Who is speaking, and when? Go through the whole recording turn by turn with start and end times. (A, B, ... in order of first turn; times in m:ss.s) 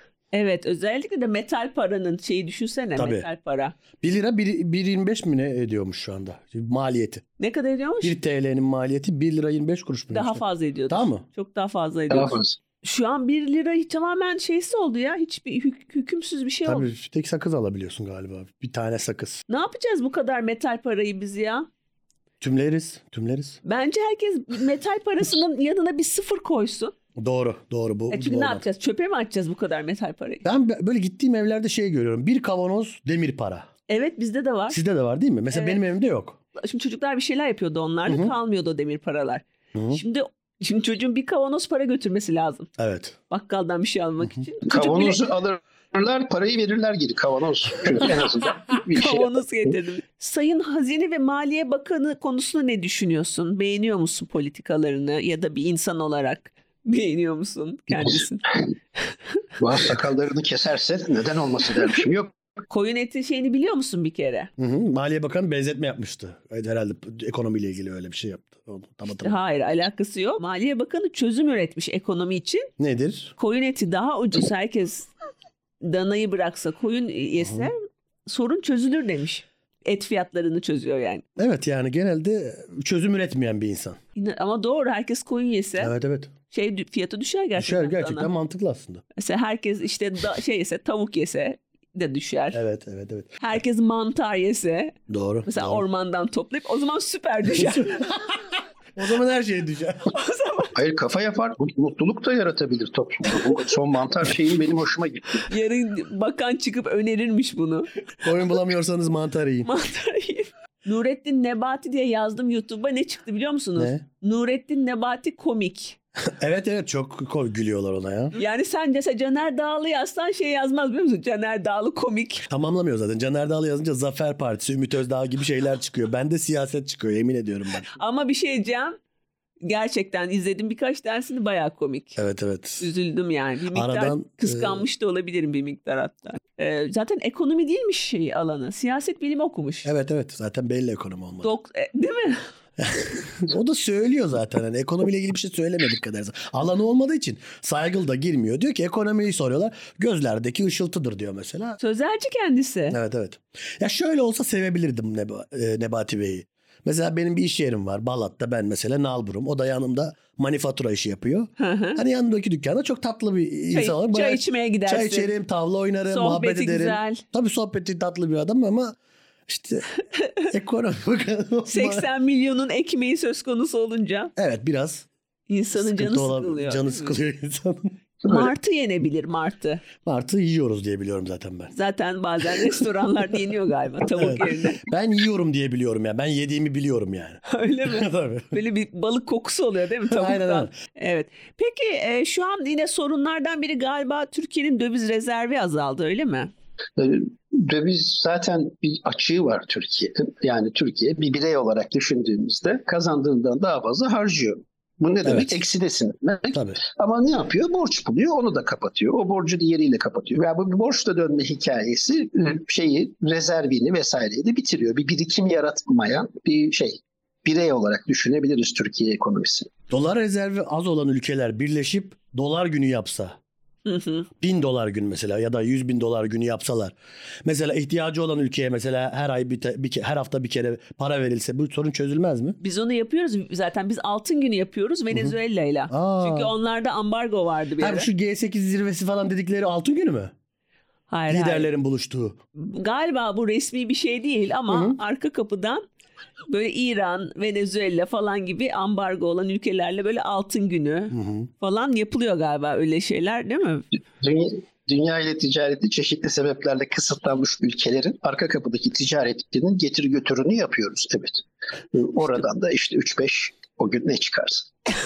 0:00.3-0:03.8 A
0:03.0-0:03.3 B
0:04.0-0:07.2 B
0:07.4-0:08.1 A
0:08.0-0:11.2 B
0:10.1-0:16.8 A
0:12.1-0:12.6 C
0:16.7-0:19.4 B
0:19.5-0:21.7 A
0:22.4-0:23.6 B
0:23.6-0:26.9 A
0:27.2-0:28.6 B
0:28.1-0:30.4 A
0:30.4-0:33.7 B
0:33.9-0:34.8 A
0:34.7-0:36.4 B
0:35.5-0:35.8 A
0:36.6-0:42.7 A
0:38.0-0:38.3 B
0:39.7-0:40.0 B
0:42.8-0:43.2 B
0:43.3-0:45.3 A
0:44.7-0:49.4 C
0:48.9-0:58.5 A
0:57.9-0:58.2 C
0:59.6-1:02.3 C
1:02.7-1:04.5 A
1:04.6-1:09.4 B
1:09.2-1:12.7 A
1:12.8-1:13.3 B
1:13.4-1:15.1 A
1:15.8-1:17.8 A
1:17.4-1:17.7 B
1:18.3-1:21.2 A
1:21.4-1:24.0 B
1:24.2-1:25.9 A
1:25.8-1:26.3 B
1:26.5-1:28.3 A
1:27.6-1:29.0 B
1:29.2-1:32.6 A
1:32.5-1:33.4 B
1:33.4-1:38.0 A
1:35.1-1:35.8 B
1:37.6-1:38.4 B
1:39.0-1:40.1 B
1:40.1-1:40.7 A
1:40.7-1:45.5 C
1:45.5-1:47.9 A
1:48.2-1:49.7 B
1:49.6-1:56.0 A
1:53.8-1:54.0 B
1:56.4-1:58.4 B
1:58.3-2:02.5 A
2:02.5-2:07.9 B
2:07.9-2:09.0 A
2:09.6-2:12.2 A
2:12.2-2:12.8 B
2:12.8-2:19.9 A
2:13.7-2:14.8 B
2:19.8-2:21.5 B
2:21.4-2:22.4 A
2:22.8-2:31.8 B
2:31.8-2:33.0 A
2:32.9-2:52.0 B
2:41.6-2:42.0 A
2:43.7-2:45.3 A
2:46.1-2:47.2 A
2:51.7-2:54.3 A
2:54.4-2:55.1 B
2:55.5-2:57.1 A
2:55.7-2:58.0 B
2:58.2-2:59.8 A
3:00.0-3:01.7 B
3:01.7-3:04.8 A
3:04.1-3:08.5 B
3:07.5-3:16.5 A
3:10.1-3:10.7 B
3:17.0-3:39.7 C
3:25.2-3:25.5 B
3:26.5-3:26.8 B
3:39.9-3:43.4 B
3:43.8-3:44.3 A
3:44.4-3:52.6 B
3:52.6-3:58.1 A
3:55.9-3:56.5 B
3:57.8-4:00.3 B
4:01.1-4:01.7 A
4:01.3-4:02.4 B
4:02.6-4:05.8 A
4:04.7-4:05.0 B
4:06.5-4:13.9 A
4:11.1-4:11.5 B
4:14.2-4:24.7 C